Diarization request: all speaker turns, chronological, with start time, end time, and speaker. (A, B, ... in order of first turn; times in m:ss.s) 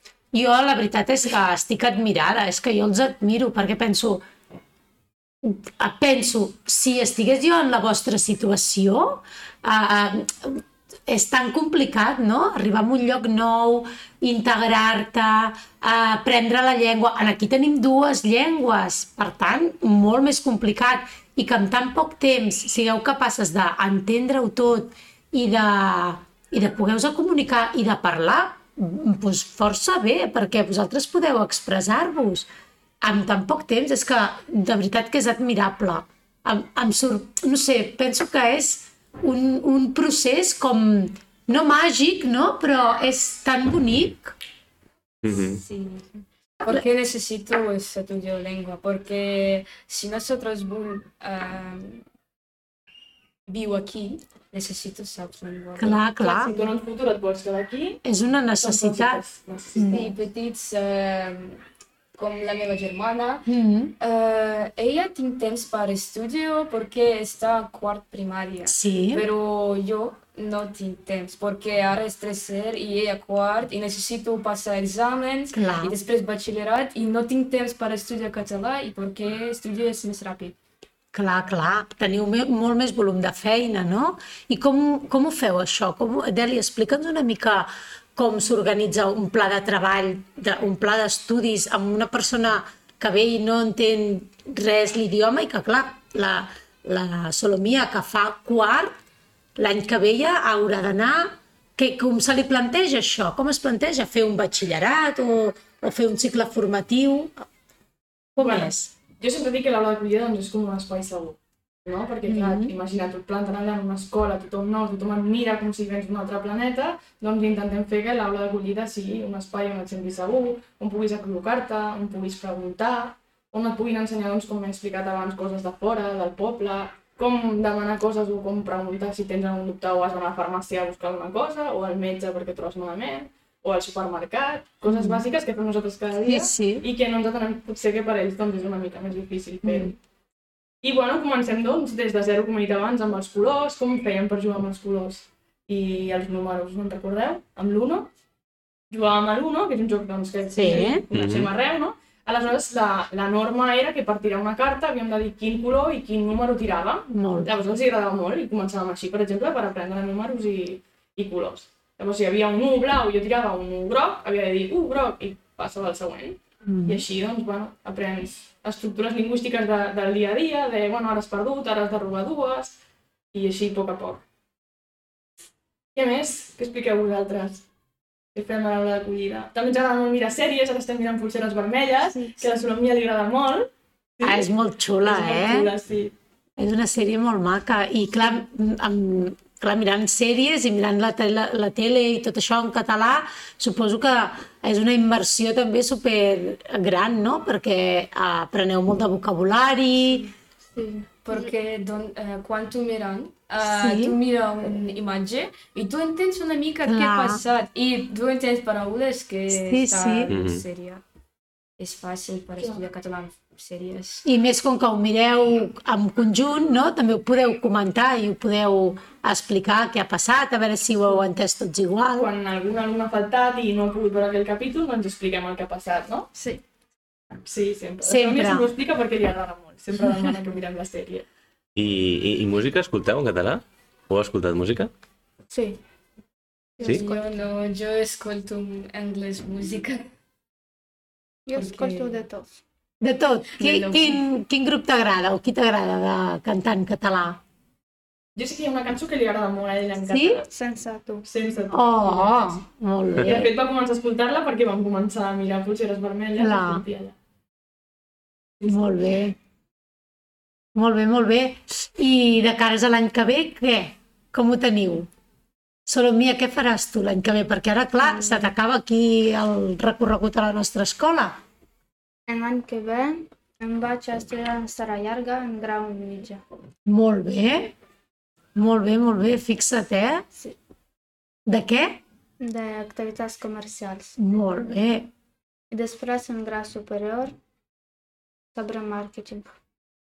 0:00.3-0:04.2 A
0:05.4-0:32.5 A
0:33.0-0:44.3 A
0:45.2-0:45.6 B
0:45.3-0:52.1 C
0:53.5-0:56.7 C
0:55.8-0:56.5 A
0:56.2-0:58.0 D
0:58.0-0:59.2 A
0:58.6-1:00.2 D
0:59.8-1:00.1 A
0:59.9-1:01.6 C
1:02.1-1:03.5 C
1:03.5-1:04.0 A
1:04.0-1:20.6 C
1:08.7-1:09.2 A
1:15.5-1:16.0 A
1:21.1-1:38.9 A
1:39.6-1:47.4 A
1:48.4-1:48.9 A
1:48.4-2:20.0 D
1:52.3-1:52.7 A
2:14.9-2:15.2 A
2:16.2-2:16.9 A
2:19.6-2:19.9 A
2:20.8-2:28.1 D
2:28.9-2:52.8 D
2:30.5-2:31.0 A
2:31.1-2:31.5 B
2:37.1-2:37.5 A
2:46.7-2:47.0 A
2:53.3-2:54.2 D
2:56.0-2:57.6 D
2:58.3-3:04.5 D
3:04.2-3:05.7 A
3:05.0-3:06.1 D
3:06.6-3:20.3 A
3:20.1-3:21.5 E
3:21.2-3:31.0 C
3:23.6-3:24.2 A
3:26.9-3:27.4 A
3:29.5-3:30.3 A
3:30.3-3:30.6 B
3:31.8-3:34.3 C
3:34.2-3:42.3 A
3:42.2-3:46.3 D
3:46.3-3:46.6 E
3:47.4-3:51.3 D
3:48.0-3:48.7 A
3:51.8-3:54.9 B
3:55.5-3:55.8 E
3:56.8-3:57.3 E
3:56.8-4:00.1 C
4:01.5-4:02.6 E
4:01.6-4:02.2 C
4:03.0-4:07.4 A
4:03.5-4:04.2 C
4:08.4-4:10.5 D
4:10.1-4:10.4 A
4:10.5-4:11.3 E
4:11.3-4:12.6 D
4:11.7-4:13.5 A
4:13.2-4:17.1 D
4:16.4-4:16.8 A
4:18.6-4:19.4 A
4:20.8-4:25.1 A
4:25.9-4:31.4 A
4:28.0-4:28.5 E
4:32.3-4:36.4 E
4:36.9-4:37.8 A
4:38.6-4:40.2 A
4:41.5-4:42.0 A
4:42.4-4:44.2 E
4:44.2-4:45.1 A
4:45.7-4:47.4 E
4:48.5-4:49.5 E